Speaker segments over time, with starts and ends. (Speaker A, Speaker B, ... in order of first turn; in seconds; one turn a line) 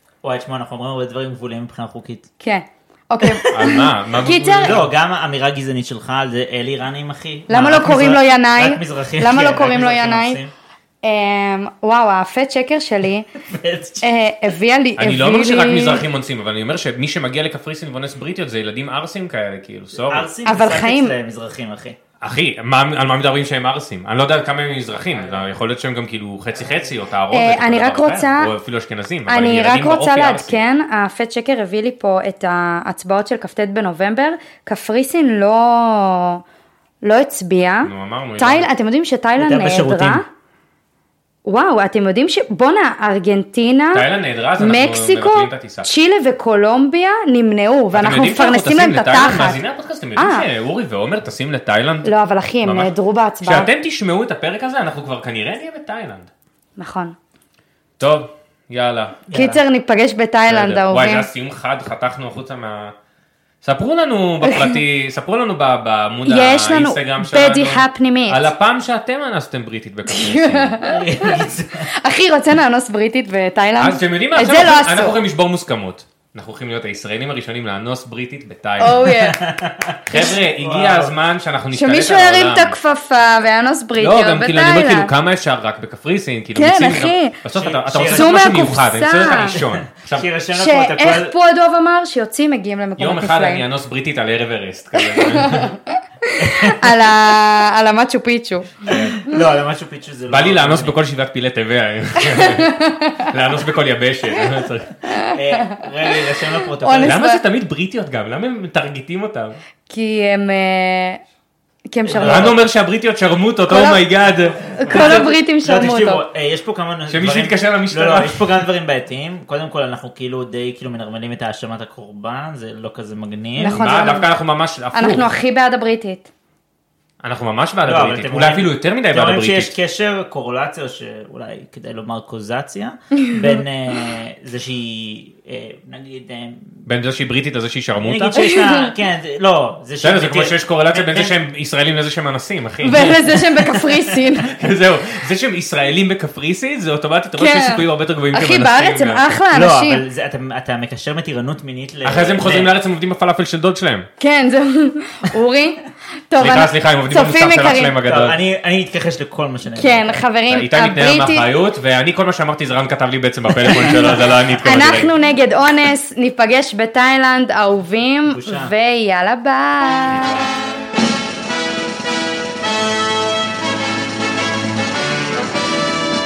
Speaker A: 0.2-2.3
Speaker B: 2.4-4.8
Speaker A: 3.2-3.9
Speaker C: 3.5-4.9
Speaker A: 4.6-10.5
Speaker B: 7.5-10.4
Speaker B: 11.0-13.3
Speaker A: 13.4-14.1
Speaker B: 14.0-16.0
Speaker C: 15.0-20.3
Speaker A: 19.9-22.0
Speaker B: 20.4-21.1
Speaker C: 22.2-30.6
Speaker B: 27.3-28.5
Speaker B: 29.3-36.4
Speaker B: 37.0-40.3
Speaker C: 37.8-38.7
Speaker A: 39.4-40.2
Speaker B: 41.5-44.1
Speaker C: 43.9-45.9
Speaker B: 44.6-49.6
Speaker C: 47.9-56.3
Speaker B: 50.1-50.5
Speaker B: 52.0-53.7
Speaker B: 56.8-57.2
Speaker C: 58.0-59.2
Speaker A: 59.3-59.6
Speaker B: 59.3-61.3
Speaker C: 60.5-63.0
Speaker C: 63.6-70.8
Speaker B: 64.4-64.8
Speaker B: 66.2-68.5
Speaker B: 70.1-71.4
Speaker A: 70.8-71.9
Speaker B: 72.0-75.2
Speaker C: 73.8-79.1
Speaker B: 78.8-79.4
Speaker A: 79.0-81.1
Speaker C: 80.1-82.8
Speaker B: 81.7-85.1
Speaker C: 84.0-90.3
Speaker B: 86.5-87.4
Speaker A: 87.5-91.3
Speaker B: 88.0-89.6
Speaker B: 90.5-93.7
Speaker C: 93.0-95.7
Speaker B: 95.0-99.3
Speaker A: 96.4-97.0
Speaker A: 98.9-101.0
Speaker C: 100.3-105.0
Speaker B: 102.2-103.3
Speaker B: 105.0-107.4
Speaker A: 105.3-107.2
Speaker C: 107.0-109.6
Speaker B: 109.9-111.2
Speaker B: 111.9-112.6
Speaker A: 112.1-112.6
Speaker C: 112.1-115.3
Speaker B: 113.7-114.0
Speaker A: 114.8-124.1
Speaker B: 114.8-116.2
Speaker C: 117.1-118.5
Speaker B: 123.6-124.3
Speaker C: 123.7-125.3
Speaker B: 124.9-126.3
Speaker C: 127.2-129.7
Speaker A: 127.8-136.8
Speaker B: 133.2-133.6
Speaker C: 136.9-138.4
Speaker A: 138.0-141.3
Speaker B: 138.3-138.9
Speaker C: 140.0-143.4
Speaker B: 142.8-144.5
Speaker C: 144.4-149.2
Speaker B: 147.4-150.0
Speaker A: 149.5-152.7
Speaker C: 152.0-154.1
Speaker B: 154.2-158.0
Speaker C: 156.4-158.4
Speaker A: 158.1-160.2
Speaker B: 159.7-161.5
Speaker C: 160.5-165.1
Speaker A: 163.7-164.2
Speaker B: 164.6-170.4
Speaker A: 168.3-168.7
Speaker C: 170.1-170.4